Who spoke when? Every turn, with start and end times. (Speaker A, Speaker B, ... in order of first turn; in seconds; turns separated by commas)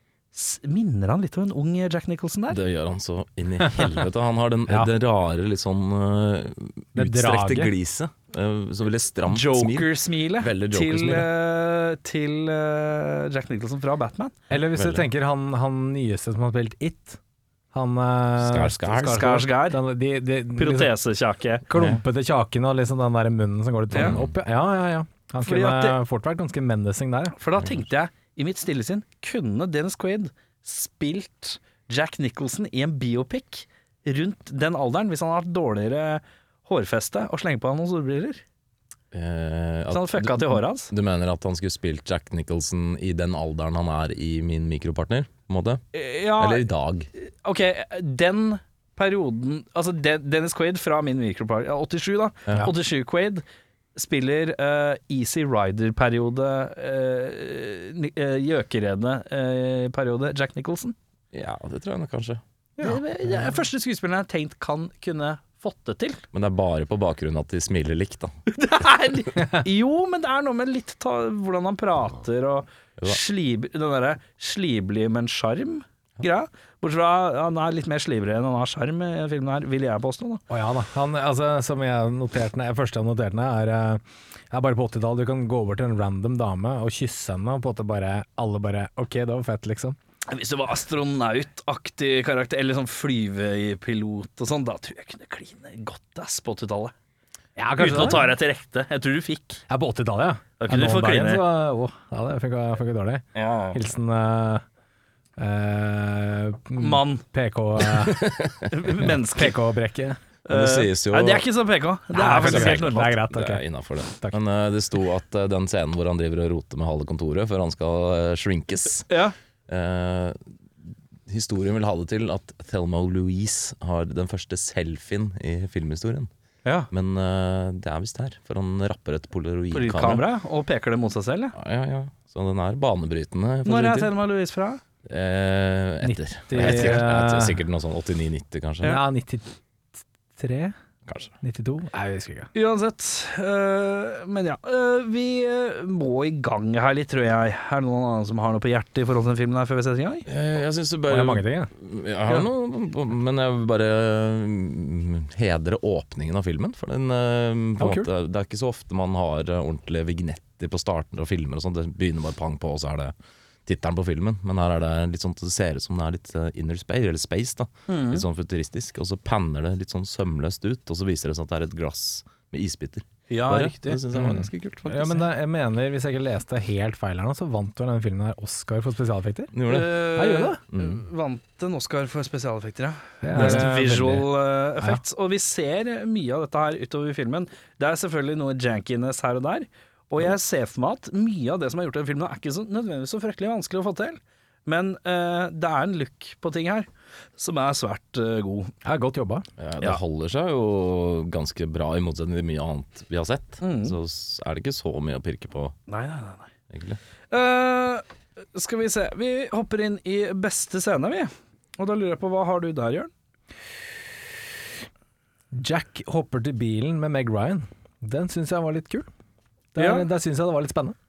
Speaker A: 0.3-2.6, Speaker B: 2.5-11.3, Speaker C: 6.9-7.7, Speaker A: 9.3-14.3, Speaker C: 14.5-17.2, Speaker B: 14.7-15.1, Speaker C: 17.7-20.9, Speaker B: 18.4-19.3, Speaker A: 19.0-19.8, Speaker A: 20.6-21.6, Speaker C: 21.7-27.4, Speaker B: 21.7-22.0, Speaker B: 23.9-24.3, Speaker A: 25.4-26.0, Speaker A: 27.4-38.4, Speaker B: 39.1-45.8, Speaker A: 39.9-40.9, Speaker A: 45.9-46.6, Speaker B: 46.4-47.1, Speaker A: 47.2-53.4, Speaker A: 53.9-61.0, Speaker B: 61.3-62.4, Speaker A: 62.8-66.2, Speaker B: 66.3-68.3, Speaker A: 68.5-80.4, Speaker C: 80.5-90.0, Speaker A: 90.3-96.9, Speaker C: 97.5-98.3, Speaker A: 97.8-99.6, Speaker C: 99.7-104.6, Speaker A: 100.6-101.4, Speaker A: 103.3-103.8, Speaker C: 105.4-108.2, Speaker A: 106.8-107.2, Speaker B: 107.9-108.7, Speaker A: 108.7-109.5, Speaker C: 109.0-110.2, Speaker A: 110.5-113.2, Speaker B: 110.5-111.4, Speaker C: 112.1-114.4, Speaker B: 112.3-119.1, Speaker A: 119.1-119.3, Speaker B: 119.7-120.4, Speaker B: 121.3-126.3, Speaker B: 126.9-130.2, Speaker A: 129.7-131.5, Speaker B: 131.5-134.1, Speaker A: 133.6-134.8, Speaker B: 135.1-139.0, Speaker C: 136.0-137.6, Speaker C: 138.8-140.7, Speaker B: 141.1-141.3, Speaker C: 141.4-142.5, Speaker A: 142.5-150.2, Speaker B: 150.3-163.1, Speaker C: 151.1-151.7, Speaker C: 157.8-158.1, Speaker B: 163.7-175.1, Speaker A: 167.9-168.2, Speaker A: 173.3-174.3, Speaker C: 174.1-179.5, Speaker B: 179.5-180.0, Speaker A: 179.7-198.7, Speaker C: 180.1-180.6, Speaker B: 180.7-181.0, Speaker C: 183.2-184.3, Speaker B: 183.3-183.6, Speaker C: 198.8-199.5, Speaker B: 199.6-205.7, Speaker A: 203.6-203.9, Speaker A: 205.9-206.5, Speaker B: 206.7-207.0, Speaker A: 207.3-213.1, Speaker C: 215.5-219.1, Speaker C: 219.7-220.9, Speaker A: 219.8-220.1